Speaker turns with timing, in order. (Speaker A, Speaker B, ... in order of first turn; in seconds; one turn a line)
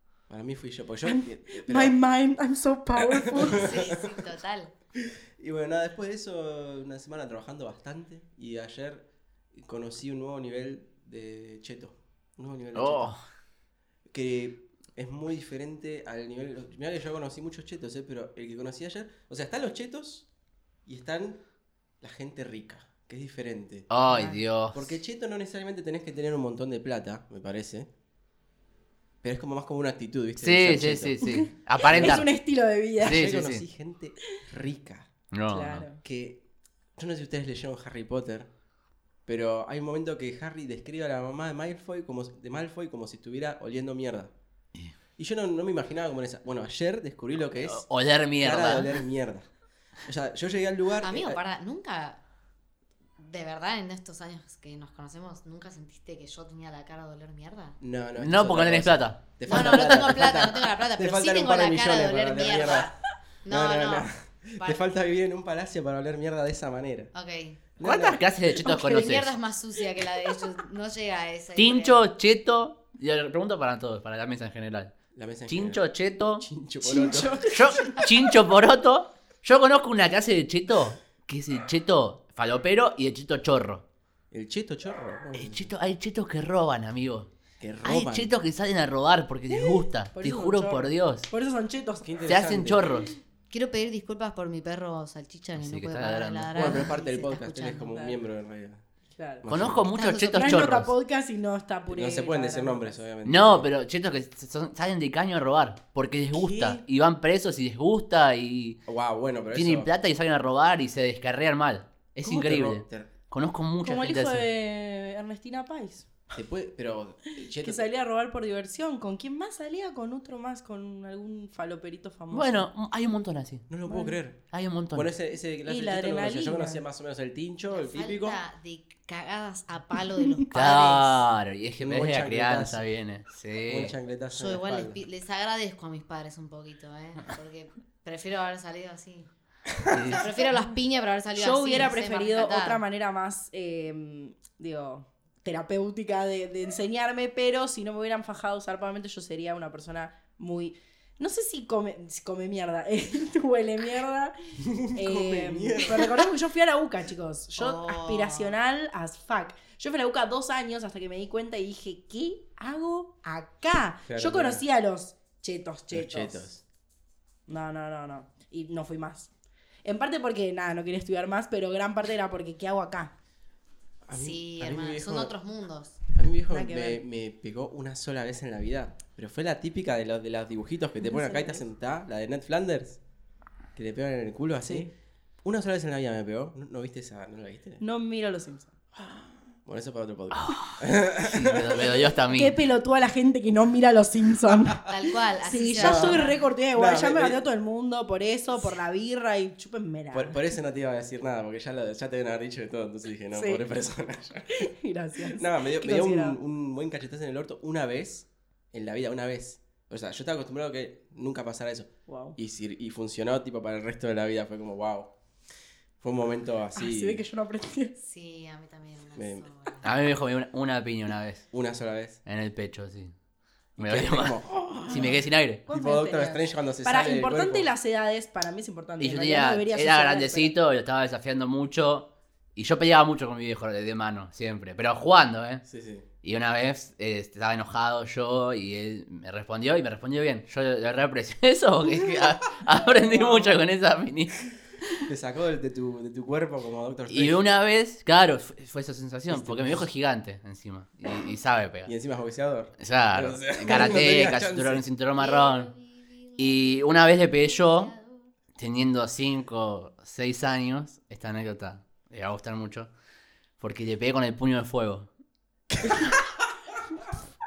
Speaker A: 0.3-2.0
Speaker B: 1.0-3.7
Speaker A: 2.9-4.2
Speaker C: 3.5-4.7
Speaker A: 5.0-13.1
Speaker D: 12.7-13.2
Speaker A: 14.1-20.3
Speaker A: 20.9-21.4
Speaker A: 22.0-23.9
Speaker D: 23.9-24.9
Speaker B: 24.1-24.4
Speaker A: 24.7-27.9
Speaker A: 29.2-31.2
Speaker D: 30.4-32.3
Speaker B: 31.2-33.3
Speaker A: 31.8-32.2
Speaker D: 33.0-33.6
Speaker A: 33.0-35.1
Speaker D: 35.3-35.8
Speaker B: 35.5-36.0
Speaker A: 36.0-36.4
Speaker A: 37.0-38.5
Speaker A: 39.2-44.3
Speaker A: 45.2-47.8
Speaker D: 47.6-49.0
Speaker A: 48.4-49.5
Speaker A: 50.0-51.4
Speaker C: 51.0-52.2
Speaker C: 53.2-57.8
Speaker A: 57.8-62.9
Speaker D: 58.2-59.9
Speaker C: 59.5-64.1
Speaker A: 63.5-67.1
Speaker C: 67.1-67.6
Speaker A: 67.8-68.2
Speaker D: 67.8-69.4
Speaker C: 68.7-72.0
Speaker D: 71.5-74.9
Speaker A: 75.1-77.5
Speaker D: 75.5-76.5
Speaker B: 76.8-78.1
Speaker D: 77.5-83.8
Speaker A: 84.3-85.7
Speaker D: 85.3-87.3
Speaker A: 87.6-88.3
Speaker D: 87.8-91.3
Speaker B: 89.5-92.1
Speaker A: 92.0-93.0
Speaker D: 92.2-93.1
Speaker C: 93.5-98.0
Speaker D: 95.6-96.9
Speaker A: 96.5-98.8
Speaker B: 99.2-99.5
Speaker A: 99.4-99.8
Speaker D: 99.5-100.9
Speaker C: 99.9-100.7
Speaker B: 100.3-103.0
Speaker A: 101.9-103.7
Speaker D: 103.2-108.8
Speaker B: 106.3-106.8
Speaker A: 108.9-109.9
Speaker D: 109.5-114.5
Speaker A: 112.2-113.1
Speaker B: 113.8-116.1
Speaker A: 116.3-117.8
Speaker B: 117.6-122.7
Speaker D: 122.3-123.7
Speaker A: 123.7-128.4
Speaker B: 123.9-124.2
Speaker D: 124.5-125.1
Speaker B: 125.7-126.8
Speaker C: 127.7-131.2
Speaker D: 130.5-133.9
Speaker A: 131.8-132.8
Speaker A: 133.7-135.0
Speaker C: 134.3-139.3
Speaker D: 139.9-140.2
Speaker C: 140.1-142.8
Speaker B: 141.3-154.3
Speaker A: 154.6-156.3
Speaker B: 154.9-166.4
Speaker C: 157.6-158.5
Speaker A: 164.1-164.6
Speaker A: 165.9-166.6
Speaker B: 167.5-169.3
Speaker B: 169.8-173.1
Speaker A: 174.1-175.3
Speaker C: 174.1-176.0
Speaker A: 176.1-183.0
Speaker B: 176.5-177.0
Speaker B: 181.0-181.6
Speaker A: 183.8-184.9
Speaker B: 184.6-184.9
Speaker A: 185.4-187.8
Speaker B: 187.8-188.7
Speaker A: 188.9-192.1
Speaker D: 190.3-192.6
Speaker B: 192.3-194.8
Speaker C: 194.9-196.4
Speaker B: 195.4-200.4
Speaker A: 195.8-197.4
Speaker A: 200.1-204.7
Speaker B: 203.3-203.6
Speaker B: 204.6-206.4
Speaker A: 205.2-215.1
Speaker B: 212.1-212.4
Speaker A: 216.0-217.2
Speaker B: 216.7-217.9
Speaker C: 218.0-219.9
Speaker A: 219.1-219.5
Speaker D: 219.8-221.4
Speaker A: 221.5-222.2
Speaker D: 222.2-223.1
Speaker D: 223.8-224.3
Speaker A: 223.8-227.7
Speaker D: 224.9-225.6
Speaker B: 225.7-230.5
Speaker D: 229.0-235.6
Speaker A: 235.6-236.1
Speaker D: 236.2-245.0
Speaker A: 245.1-247.4
Speaker D: 247.1-251.9
Speaker A: 249.3-249.8
Speaker A: 251.8-254.8
Speaker D: 252.8-255.7
Speaker C: 255.2-258.3
Speaker D: 256.4-257.9
Speaker D: 258.6-262.9
Speaker D: 263.6-265.1